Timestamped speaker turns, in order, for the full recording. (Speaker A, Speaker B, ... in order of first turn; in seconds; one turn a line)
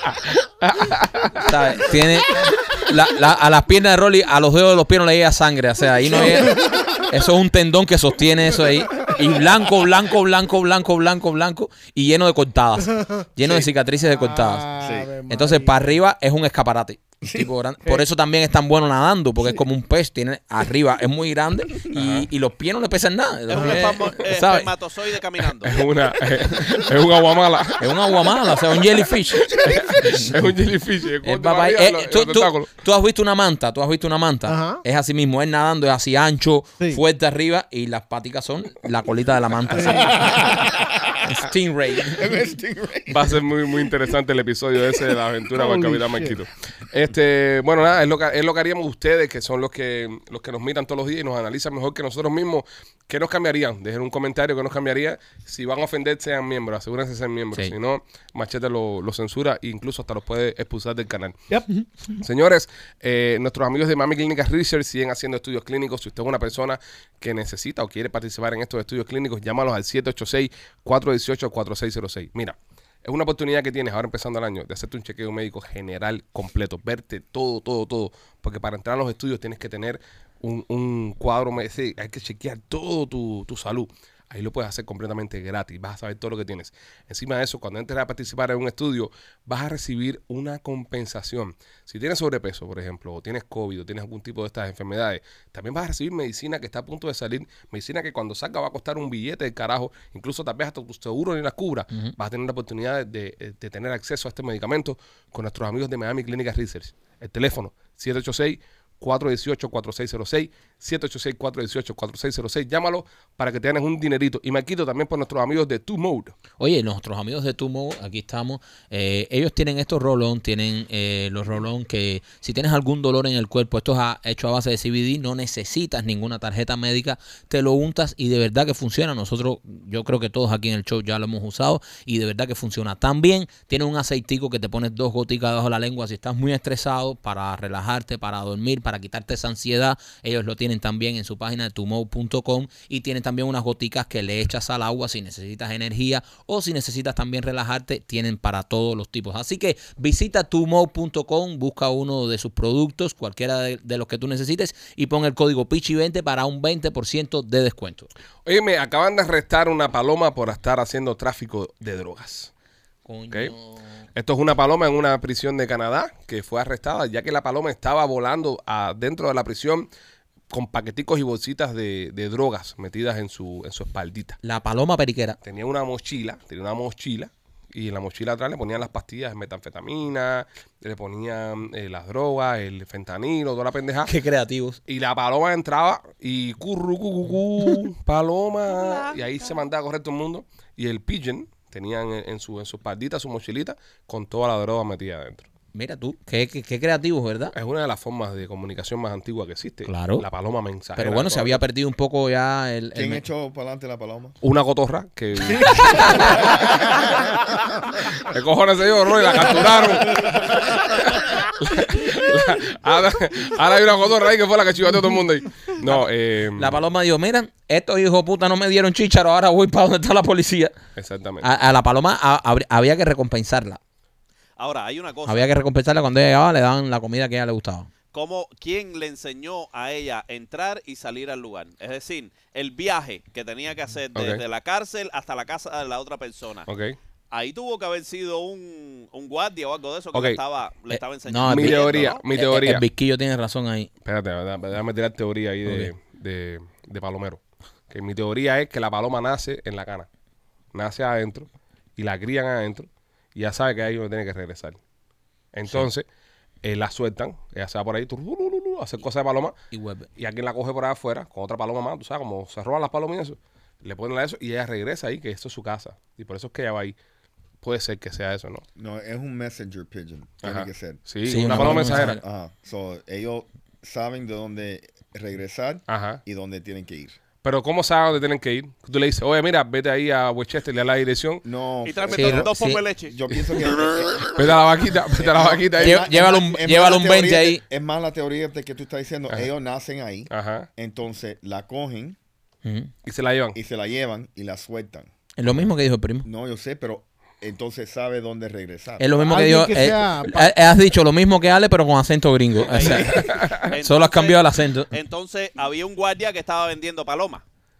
Speaker A: 0.6-1.5
Speaker B: 1.4-14.7
Speaker C: 6.1-6.9
Speaker C: 14.1-15.9
Speaker D: 14.8-15.1
Speaker B: 15.3-24.7
Speaker D: 17.2-17.5
Speaker A: 21.9-22.3
Speaker E: 23.5-25.9
Speaker C: 23.6-23.9
Speaker A: 25.6-27.9
Speaker B: 27.8-30.4
Speaker A: 29.6-32.7
Speaker B: 31.2-40.6
Speaker C: 34.5-34.8
Speaker C: 39.7-40.3
Speaker D: 40.1-41.1
Speaker B: 41.2-42.3
Speaker D: 42.1-43.4
Speaker A: 43.1-61.4
Speaker C: 45.5-46.4
Speaker A: 62.2-116.4
Speaker B: 116.6-158.1
Speaker A: 158.4-162.5
Speaker B: 163.1-163.9
Speaker A: 164.2-169.9
Speaker A: 170.5-174.4
Speaker B: 174.4-175.4
Speaker A: 175.4-184.1
Speaker B: 184.1-184.8
Speaker A: 184.9-195.5
Speaker E: 188.8-189.2
Speaker B: 195.7-197.5
Speaker A: 197.5-201.6
Speaker B: 199.9-200.3
Speaker B: 201.0-203.2
Speaker D: 202.9-204.3
Speaker A: 204.4-207.0
Speaker B: 205.6-206.5
Speaker A: 208.2-216.8
Speaker B: 216.6-220.8
Speaker A: 221.0-221.5
Speaker B: 221.4-223.8
Speaker E: 224.6-225.5
Speaker B: 225.3-227.9
Speaker E: 228.1-236.7
Speaker A: 234.2-234.4
Speaker A: 236.7-237.0
Speaker E: 237.3-242.2
Speaker A: 240.1-240.4
Speaker B: 240.9-243.9
Speaker A: 241.4-242.8
Speaker A: 244.1-250.1
Speaker B: 245.7-245.9
Speaker A: 250.7-254.8
Speaker A: 255.5-256.1
Speaker A: 256.6-259.6
Speaker B: 259.7-260.1
Speaker A: 260.2-267.0
Speaker A: 267.6-268.6
Speaker D: 268.8-277.2
Speaker A: 270.4-272.2
Speaker B: 271.3-272.2
Speaker A: 275.9-276.2
Speaker A: 277.4-281.4
Speaker D: 281.4-282.5
Speaker E: 281.8-283.2
Speaker B: 282.1-282.8
Speaker D: 283.1-284.6
Speaker A: 284.3-286.1
Speaker D: 285.1-292.2
Speaker B: 285.8-287.6
Speaker A: 290.3-290.7
Speaker B: 292.6-292.9
Speaker A: 293.1-293.6
Speaker D: 293.5-295.1
Speaker B: 295.4-296.3
Speaker D: 296.2-299.4
Speaker B: 299.0-304.9
Speaker C: 299.3-300.5
Speaker E: 302.7-303.1
Speaker A: 302.8-303.8
Speaker E: 303.6-307.4